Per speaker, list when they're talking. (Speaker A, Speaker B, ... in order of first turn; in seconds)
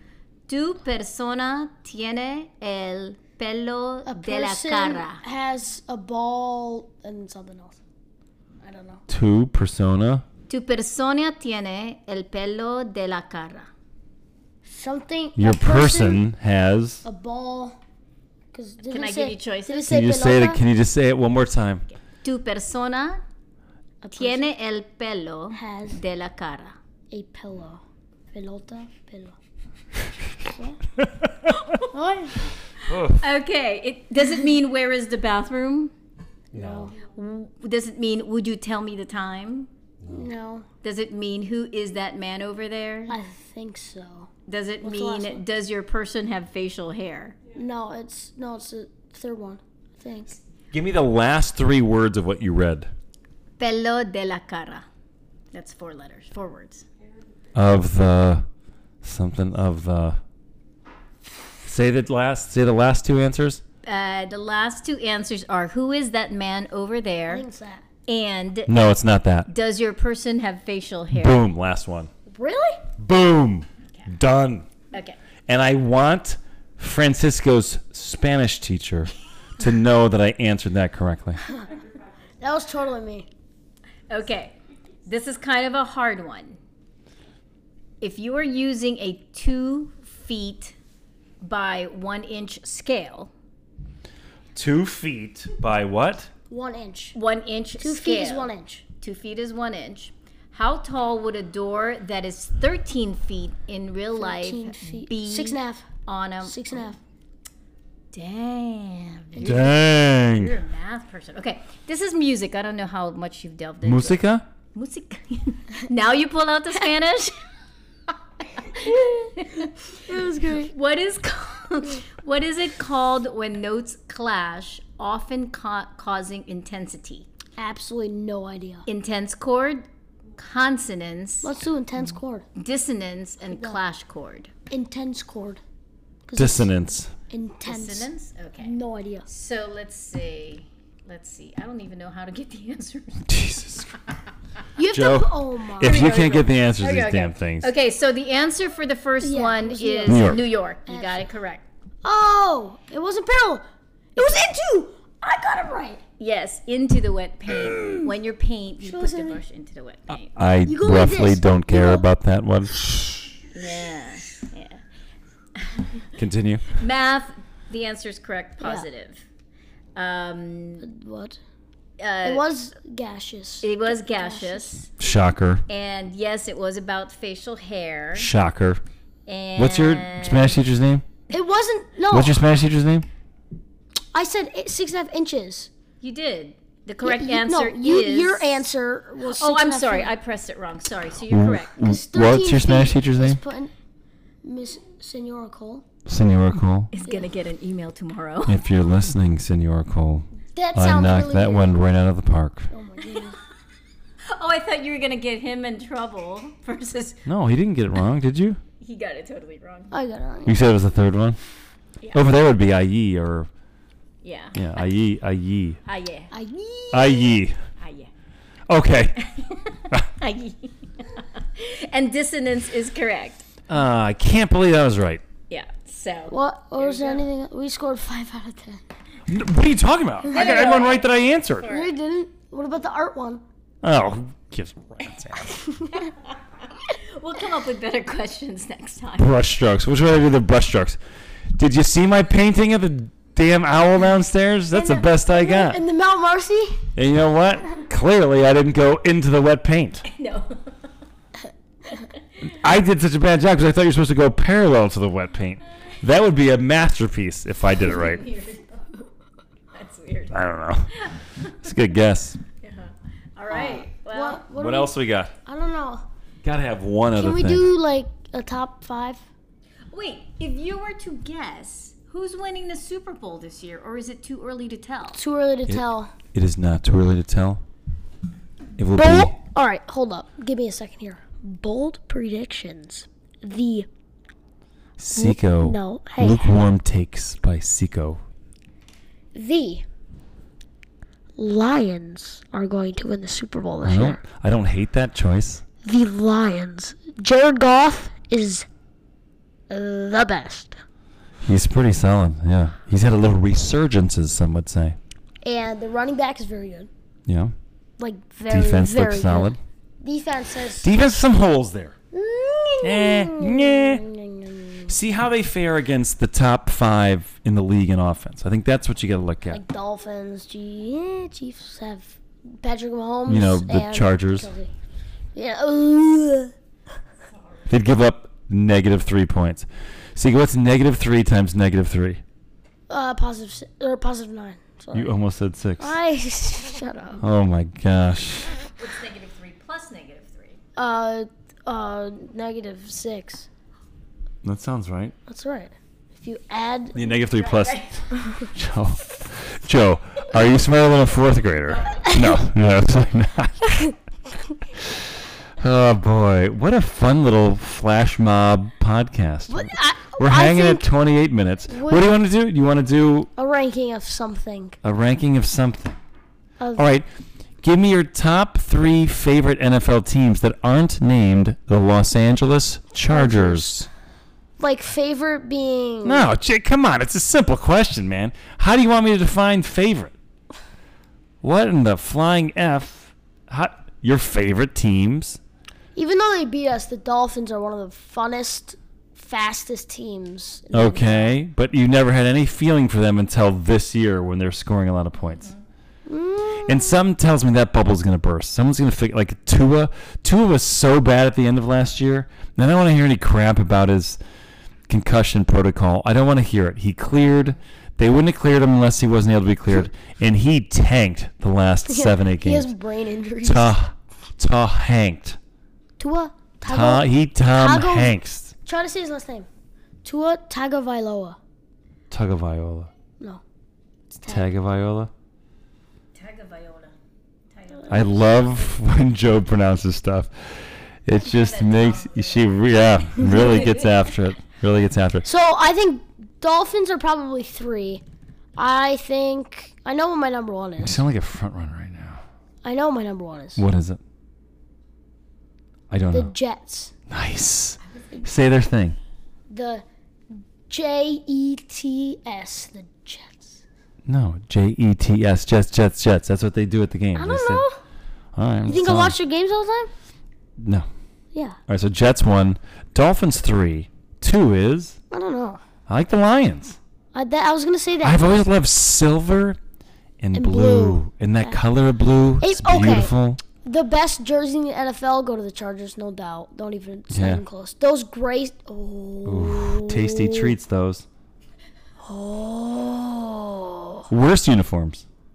Speaker A: 0.5-5.2, 10.5-13.7, 18.9-19.9, 22.2-23.2, 24.2-26.7, 32.8-35.9, 36.9-39.7, 40.8-43.1, 44.5-47.4, 53.6-54.9, 55.5-56.9, 63.8-67.5, 68.1-68.8, 69.5-71.4, 74.9-75.2, 84.1-84.5, 85.1-86.6, 88.0-90.8, 91.4-93.3, 97.2-106.9, 108.1-114.2, 114.7-117.4, 118.5-127.3, 128.9-129.8, 130.4-131.5, 132.6-134.5, 137.7-138.7, 139.3-143.4, 145.8-151.7, 154.2-154.5, 156.2-160.3, 163.5-164.8, 165.6-165.8, 166.7-169.2, 170.0-170.8, 172.0-172.5, 173.6-174.9, 175.7-178.3, 179.3-180.6, 186.0-188.7, 189.3-191.8, 196.9-198.6, 204.3-207.2, 208.8-209.9, 214.2-214.6, 215.9-216.3, 217.8-218.1, 219.2-223.5, 225.5-227.3, 230.3-231.9, 235.9-239.3, 250.1-250.7, 257.9-258.9, 259.7-260.4, 260.9-261.6, 262.6-264.4, 269.9-275.2, 338.8-340.6, 347.0-348.2, 395.3-395.6, 426.1-426.9, 427.5-428.1, 431.1-434.0
Speaker B: 4.0-7.8, 8.6-9.0, 14.7-16.2, 17.0-17.8, 18.5-20.6, 24.0-24.5, 25.5-26.0, 27.1-27.8, 28.3-29.4, 30.4-30.8, 31.9-32.5, 36.5-36.9, 40.1-40.7, 43.1-44.3, 44.8-45.4, 47.5-50.4, 67.3-67.8, 72.3-72.9, 82.4-83.3, 96.5-97.2, 97.8-98.8, 104.2-105.9, 106.4-107.0, 118.8-120.7, 127.6-128.9, 131.4-132.5, 133.5-133.8, 134.7-135.6, 136.3-136.7, 137.3-138.1, 138.6-139.3, 144.8-146.2, 149.2-151.2, 152.0-156.0, 157.8-158.1, 158.8-159.4, 160.7-162.1, 170.8-171.4, 172.2-174.8, 181.3-182.4, 184.1-185.7, 187.0-190.1, 191.8-193.7, 194.4-195.8, 197.0-197.3, 200.5-201.8, 202.7-203.4, 209.9-210.6, 216.3-217.4, 226.3-228.8, 230.3-230.8, 231.7-233.4, 235.5-236.1, 244.7-246.9, 263.5-266.0, 267.2-269.2, 275.1-276.1, 278.9-283.9, 285.1-286.5, 289.3-289.8, 291.4-294.2, 295.8-298.7, 299.7-300.8, 305.4-306.9, 308.0-310.9, 312.1-315.0, 319.5-324.7, 325.4-326.5, 332.9-335.1, 335.8-337.2, 340.8-343.5, 345.3-347.2, 352.0-352.4, 359.5-360.9, 361.7-362.1, 363.4-364.8, 366.6-366.9, 373.1-373.9, 374.6-376.3, 385.9-391.4, 396.1-397.0, 411.9-413.9, 416.0-419.5, 420.0-421.4, 424.1-424.5, 435.2-438.0, 438.6-441.0, 442.6-443.6, 446.1-446.9, 449.5-449.8, 450.7-453.6, 457.1-457.8, 458.7-459.9, 461.3-461.6, 465.1-465.6, 467.1-468.4, 470.3-471.6, 472.4-480.5, 482.0-484.1
Speaker C: 9.1-10.2, 15.4-17.0, 19.9-21.9, 32.9-33.2, 36.5-36.9, 50.7-52.9, 57.5-58.5, 59.0-60.2, 61.6-63.6, 68.7-69.5, 71.1-72.1, 73.0-74.7, 75.5-81.4, 94.5-96.3, 109.4-110.6, 113.8-114.5, 136.3-137.1, 143.3-143.9, 144.9-147.7, 150.1-150.5, 160.3-162.8, 166.2-166.8, 175.0-175.6, 178.2-178.8, 179.6-181.1, 182.1-183.1, 191.3-193.4, 196.1-196.9, 198.5-202.7, 207.3-208.6, 210.5-211.4, 212.1-213.5, 214.5-215.8, 216.9-217.6, 218.7-219.2, 223.7-225.2, 229.3-231.7, 233.8-235.6, 239.2-241.0, 241.5-245.8, 247.0-250.0, 252.4-258.3, 260.3-260.9, 261.6-262.4, 264.6-265.3, 266.4-267.7, 275.7-277.6, 278.8-279.4, 285.0-288.2, 293.8-295.6, 301.4-305.0, 307.3-307.5, 308.5-309.6, 310.8-311.9, 312.8-314.0, 314.9-319.6, 323.3-324.5, 327.7-332.2, 334.9-336.0, 337.2-338.6, 344.4-345.1, 346.9-353.9, 355.6-363.3, 364.8-366.0, 366.8-367.1, 367.6-373.9, 376.0-380.1, 381.4-385.4, 390.7-395.5, 396.6-404.2, 404.9-412.7, 413.4-415.4, 416.6-418.5, 422.1-422.9, 424.3-425.1, 427.9-435.2, 440.8-442.2, 443.6-444.0, 445.9-446.3, 447.1-449.0, 454.1-457.6, 458.4-459.2, 460.6-460.9, 461.7-465.0, 465.9-466.8, 468.0-469.6, 470.2-473.4, 477.1-477.4, 479.2-481.1, 484.1-485.1